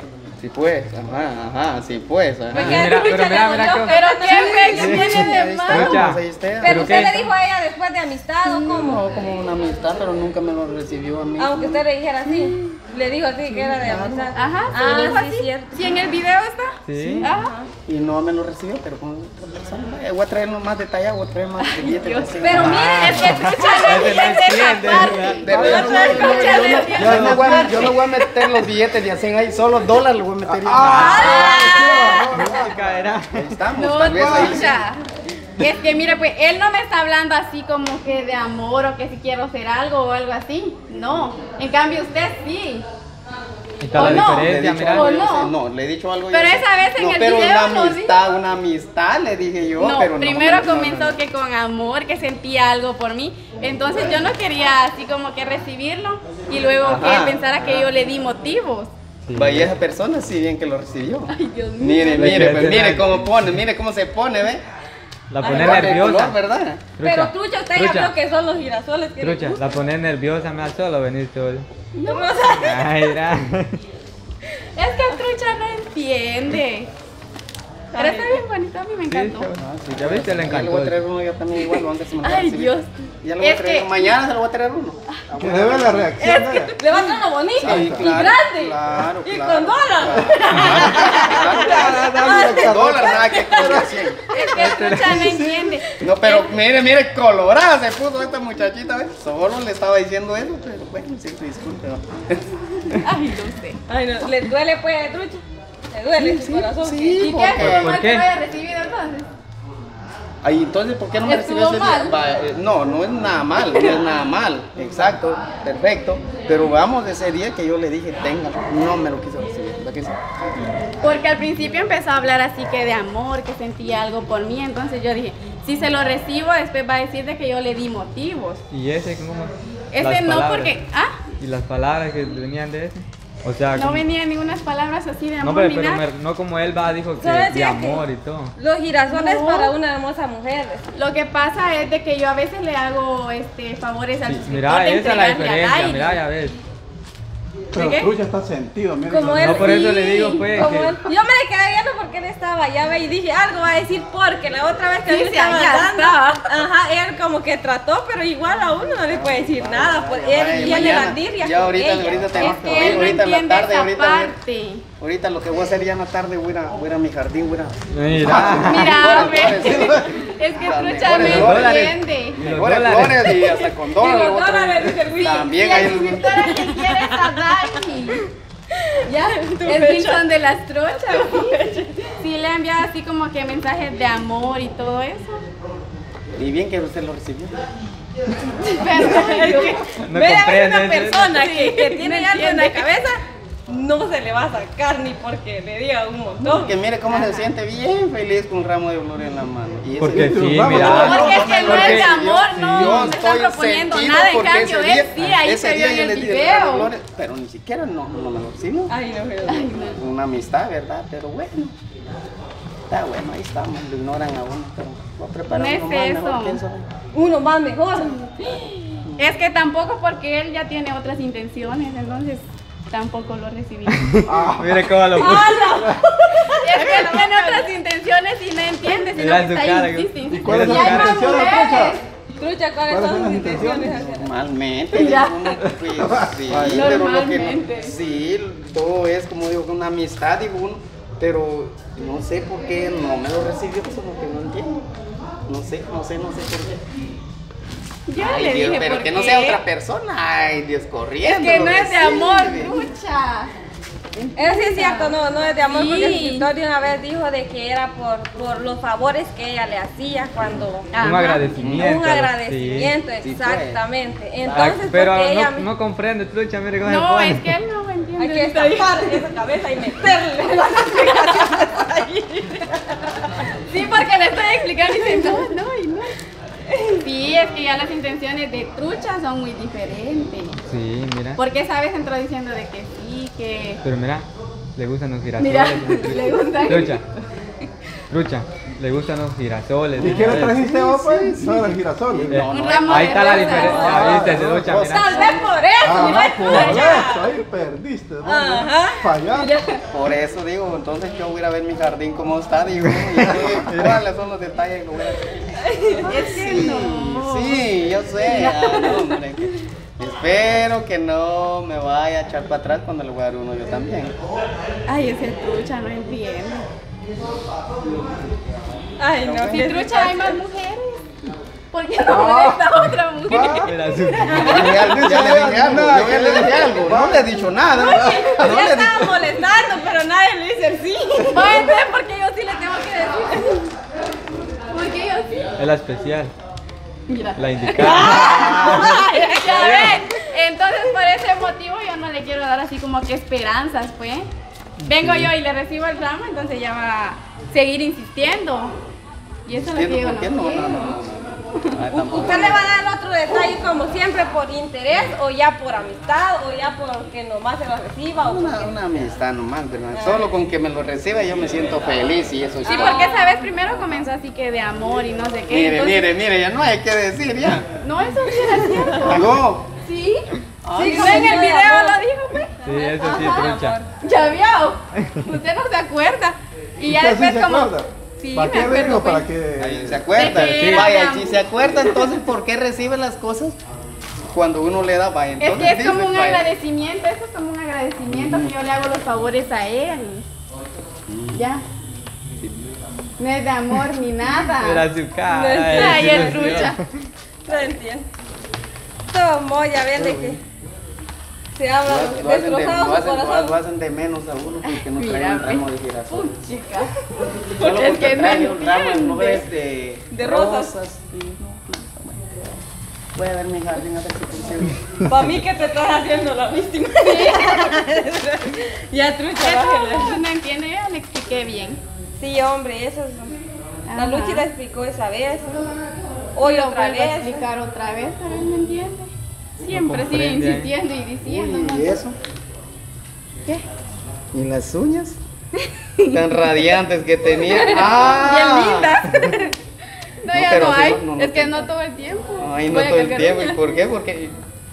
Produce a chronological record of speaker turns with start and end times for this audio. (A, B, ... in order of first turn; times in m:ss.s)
0:00.4-0:02.9 A
0:02.5-0:05.4 B
0:02.5-0:07.3 C
0:02.8-0:06.0 D
0:05.2-0:06.9 A
0:06.6-0:09.0 B
0:08.4-0:12.8 A
0:11.4-0:15.9 B
0:13.5-0:14.3 A
0:14.4-0:17.5 D
0:16.9-0:17.3 C
0:17.0-0:17.7 B
0:17.9-0:22.9 A
0:21.6-0:28.1 D
0:22.4-0:24.4 B
0:22.5-0:25.9 C
0:25.0-0:26.9 B
0:25.4-0:31.3 A
0:25.4-0:28.0 E
0:27.0-0:27.8 C
0:30.4-0:32.7 E
0:30.8-0:31.7 C
0:30.9-0:32.2 D
0:30.9-0:32.2 B
0:32.2-0:33.5 C
0:33.3-0:34.8 A
0:33.8-0:35.0 D
0:34.0-0:34.6 E
0:35.6-0:42.8 D
0:43.8-0:45.1 C
0:44.0-0:45.5 D
0:44.0-0:51.2 A
0:46.3-0:48.2 D
0:49.8-0:58.9 D
0:56.8-0:57.2 C
0:57.0-0:57.4 A
0:59.2-0:59.7 C
0:59.4-1:04.6 A
1:01.3-1:02.8 D
1:02.2-1:03.5 C
1:05.3-1:06.4 C
1:05.4-1:06.0 B
1:05.4-1:06.8 A
1:07.0-1:08.1 C
1:07.0-1:09.7 B
1:09.2-1:11.7 C
1:11.9-1:12.4 D
1:12.0-1:13.0 B
1:12.6-1:13.8 C
1:14.8-1:16.9 D
1:17.9-1:18.4 B
1:18.0-1:19.5 D
1:19.1-1:21.0 C
1:19.6-1:26.1 A
1:22.2-1:23.9 D
1:25.4-1:26.8 E
1:26.2-1:27.0 D
1:26.8-1:33.8 B
1:27.6-1:34.2 A
1:27.6-1:28.3 E
1:30.2-1:35.7 E
1:34.3-1:35.9 D
1:34.6-1:35.2 C
1:36.0-1:36.5 B
1:36.0-1:42.4 A
1:42.9-1:43.8 D
1:43.9-1:47.6 B
1:46.2-1:48.0 A
1:47.2-1:49.3 D
1:47.6-1:48.3 C
1:50.4-2:00.2 A
1:51.2-1:52.2 D
2:01.0-2:08.6 D
2:08.7-2:10.8 C
2:09.9-2:11.1 D
2:11.4-2:14.0 C
2:13.8-2:16.1 D
2:15.4-2:18.5 C
2:17.2-2:18.0 B
2:18.6-2:20.8 B
2:19.1-2:19.7 D
2:21.0-2:26.2 D
2:24.2-2:26.6 C
2:27.7-2:28.1 D
2:27.7-2:29.8 E
2:29.1-2:43.2 B
2:29.3-2:30.9 C
2:29.6-2:30.4 D
2:35.1-2:36.6 D
2:39.1-2:44.4 A
2:40.7-2:41.0 D
2:42.4-2:44.8 D
2:45.0-2:47.8 A
2:47.9-2:49.0 C
2:48.2-2:50.1 E
2:48.3-2:56.4 A
2:48.4-2:52.4 D
2:51.2-2:53.4 C
2:53.2-2:58.2 B
2:55.6-2:58.2 D
2:58.7-3:00.3 B
2:59.1-3:01.6 D
3:00.9-3:02.1 B
3:02.2-3:05.4 D
3:06.4-3:07.6 A
3:08.7-3:09.9 D
3:08.7-3:16.7 B
3:10.0-3:11.3 C
3:11.2-3:12.9 D
3:16.4-3:28.9 A
3:17.1-3:17.5 D
3:20.0-3:23.2 C
3:20.0-3:21.9 E
3:20.8-3:26.9 D
3:28.9-3:29.7 B
3:29.5-3:30.0 D
3:29.8-3:31.7 A
3:32.9-3:36.9 A
3:35.5-3:36.6 D
3:37.1-3:39.0 B
3:39.0-3:39.3 A
3:39.2-3:44.1 D
3:43.9-3:45.6 C
3:44.3-3:46.0 E
3:45.2-3:47.7 B
3:46.6-3:52.0 D
3:49.2-3:51.5 C
3:50.2-3:52.0 E
3:52.4-3:54.3 B
3:52.9-3:54.0 E
3:54.0-4:04.9 A
3:54.9-3:55.6 D
3:56.0-3:57.0 E
3:56.7-3:57.9 D
4:05.5-4:06.8 A
4:08.1-4:09.6 D
4:08.2-4:12.9 A
4:11.2-4:13.5 D
4:14.2-4:15.2 D
4:14.4-4:21.0 B
4:15.7-4:16.5 D
4:20.9-4:21.5 D
4:21.0-4:22.9 C
4:21.6-4:21.9 A
4:21.8-4:25.7 B
4:23.2-4:23.8 A
4:24.5-4:27.5 C
4:26.8-4:29.2 D
4:28.2-4:33.5 B
4:30.4-4:31.6 D
4:33.6-4:36.1 D
4:34.6-4:35.6 B
4:36.7-4:37.1 B
4:37.0-4:40.6 D
4:40.6-4:41.4 C
4:41.4-4:43.8 D
4:43.8-4:47.0 C
4:45.4-4:47.2 D
4:48.1-4:50.7 C
4:50.0-4:52.4 E
4:50.0-4:50.4 D
4:50.2-4:53.5 A
4:52.3-4:55.2 C
4:52.5-4:54.2 D
4:53.2-4:54.3 B
4:53.7-4:54.8 E
4:54.4-4:55.6 A
4:54.9-4:57.4 B
4:55.8-4:59.5 E
4:56.0-4:57.1 D
4:56.5-4:56.8 C
4:58.2-4:59.2 B
4:59.4-4:59.8 D
4:59.9-5:14.1 A
5:03.2-5:03.6 E
5:03.6-5:04.0 C
5:05.6-5:06.1 B
5:06.1-5:07.7 D
5:08.2-5:09.2 D
5:14.9-5:16.7 D
5:19.0-5:20.4 B
5:19.2-5:19.7 A
5:19.5-5:21.0 D
5:21.7-5:24.7 D
5:22.1-5:23.6 E
5:23.6-5:24.7 C
5:24.3-5:24.8 B
5:24.4-5:29.2 A
5:24.5-5:28.3 E
5:27.8-5:31.6 B
5:31.3-5:33.7 D
5:34.7-5:35.5 D
5:35.6-5:36.3 C
5:37.1-5:44.3 D
5:37.4-5:39.0 C
5:37.8-5:40.1 B
5:44.8-5:45.3 C
5:44.9-5:48.7 D
5:49.5-5:50.9 D
5:49.6-5:52.7 A
5:51.9-5:58.7 B
5:58.2-6:03.0 A
5:59.9-6:00.3 B
6:02.6-6:03.5 B
6:02.7-6:06.1 D
6:05.5-6:07.7 A
6:07.8-6:09.2 D
6:08.5-6:09.0 B
6:09.0-6:09.7 A
6:09.1-6:09.5 E
6:09.8-6:19.3 D
6:10.6-6:11.4 A
6:10.7-6:12.0 B
6:12.6-6:13.9 B
6:12.6-6:13.8 C
6:16.8-6:20.1 E
6:19.6-6:23.6 A
6:20.2-6:22.2 D
6:20.2-6:20.9 C
6:24.3-6:26.5 A
6:25.4-6:30.2 D
6:28.1-6:28.5 A
6:31.3-6:31.6 D
6:33.2-6:34.9 D
6:34.6-6:36.9 C
6:35.3-6:36.7 B
6:35.7-6:36.8 D
6:37.5-6:38.1 B
6:39.1-6:40.4 B
6:40.0-6:40.4 A
6:41.6-6:43.6 B
6:41.8-6:46.3 A
6:44.6-6:46.9 D
6:47.6-6:49.4 D
6:47.6-6:52.6 A
6:50.1-6:50.7 B
6:53.2-6:54.8 A
6:55.1-7:00.2 B
6:57.0-6:57.8 D
6:59.4-7:01.8 D
7:02.2-7:03.4 B
7:03.9-7:04.5 D
7:04.0-7:05.7 B
7:06.4-7:07.4 B
7:06.4-7:09.1 D
7:09.6-7:12.0 D
7:09.7-7:10.7 C
7:11.2-7:12.2 A
7:14.3-7:15.2 A
7:15.6-7:16.2 D
7:16.1-7:19.0 A
7:17.4-7:19.6 D
7:20.2-7:23.8 D
7:20.3-7:21.7 A
7:22.4-7:24.4 A